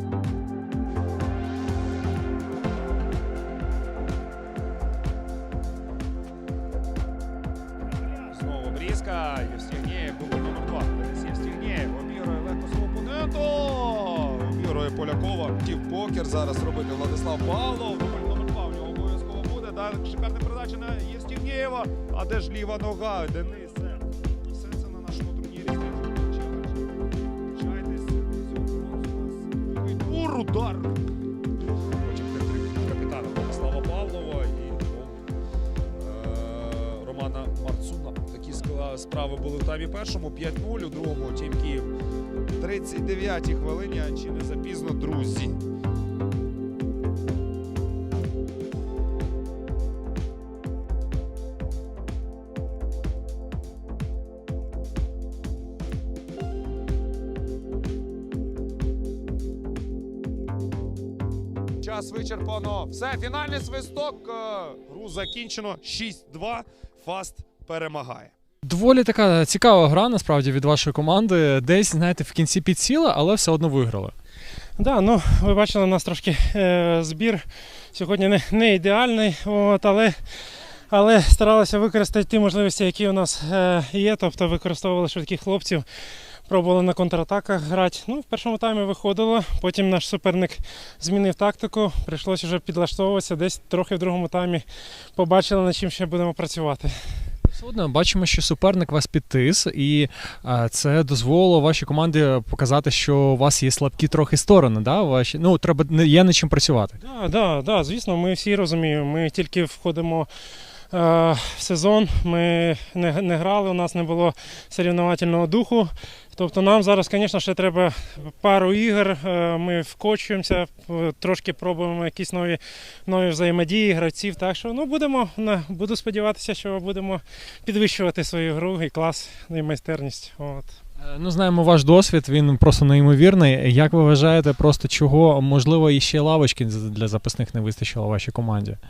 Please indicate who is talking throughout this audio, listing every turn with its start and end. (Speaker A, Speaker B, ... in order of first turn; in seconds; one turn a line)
Speaker A: 7.9-26.9
Speaker A: 27.5-31.0
Speaker A: 32.0-35.2
Speaker A: 35.9-41.9
Speaker A: 42.6-45.6
Speaker A: 61.8-68.3
Speaker B: 68.6-74.1
Speaker C: 74.8-80.2
Speaker C: 80.9-85.8
Speaker C: 86.5-94.6
Speaker C: 95.2-97.0
Speaker B: 97.5-107.0
Speaker C: 107.0-110.3
Speaker C: 110.9-130.8
Speaker B: 131.0-138.8